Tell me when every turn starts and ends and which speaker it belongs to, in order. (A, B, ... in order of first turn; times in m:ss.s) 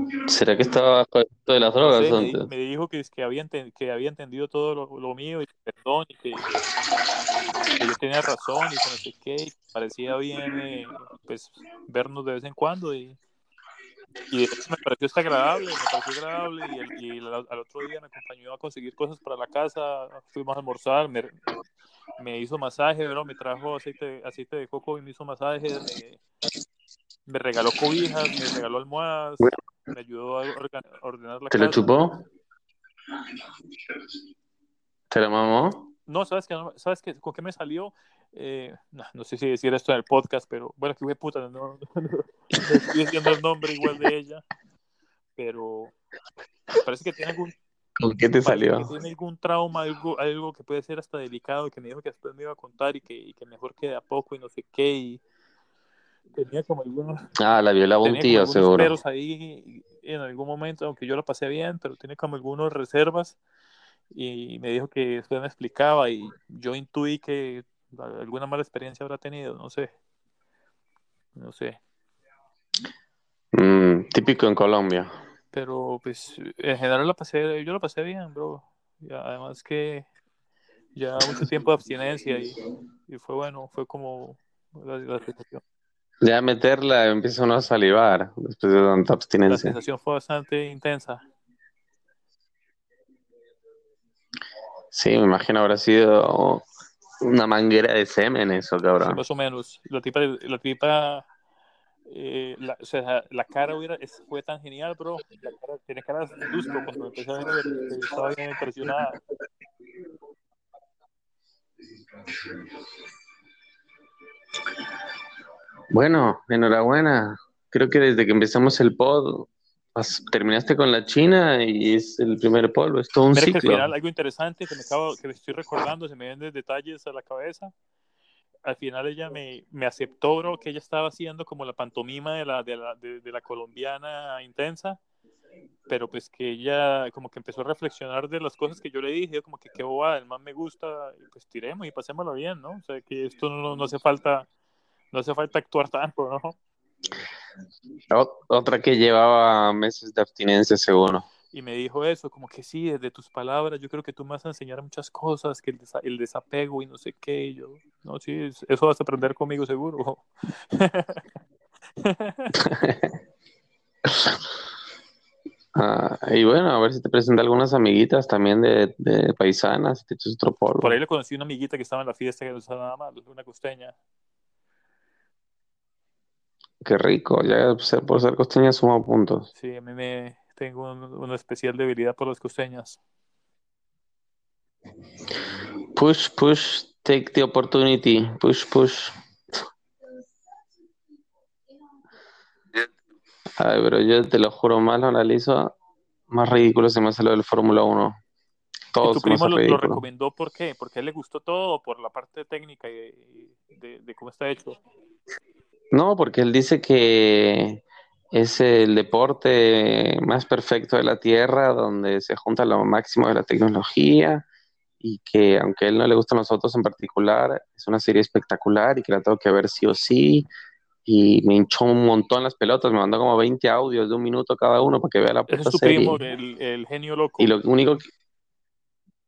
0:00.3-0:02.5 A
0:01.8-0:06.5 B
0:07.8-0:13.2 B
0:14.3-0:21.4 B
0:22.2-0:26.2 B
0:27.3-0:32.1 B
0:31.5-0:32.2 A
0:35.1-0:35.9 A
0:36.1-0:44.4 B
0:45.4-0:45.9 B
0:46.8-0:47.6 B
0:48.0-0:48.9 A
0:48.4-0:55.2 B
0:56.4-0:57.3 B
0:57.4-0:59.0 A
0:58.0-1:03.4 B
1:04.1-1:09.9 B
1:11.4-1:11.8 B
1:13.5-1:15.1 A
1:15.5-1:20.1 B
1:21.0-1:22.6 B
1:23.1-1:25.6 B
1:26.2-1:29.8 A
1:29.5-1:31.2 B
1:34.9-1:36.7 A
1:37.2-1:39.2 A
1:39.0-1:41.3 B
1:42.1-1:49.2 B
1:55.9-2:03.9 A
2:03.3-2:07.7 B
2:08.6-2:15.0 B
2:15.9-2:24.5 B
2:25.1-2:26.6 B
2:28.1-2:31.2 A
2:31.5-2:41.2 B
2:42.0-2:42.6 B
2:42.6-2:43.1 A
2:44.1-2:44.4 A
2:45.8-2:51.0 A
2:50.8-2:54.0 B
2:56.8-2:59.5 A
2:59.6-3:03.0 B
3:06.0-3:09.1 A
3:13.6-3:15.8 A
3:16.3-3:18.2 A
3:18.9-3:20.0 A
3:19.0-3:24.8 B
3:25.9-3:34.4 A
3:35.0-3:40.5 A
3:41.1-3:46.2 A
3:45.5-3:47.5 B
3:47.4-3:48.1 A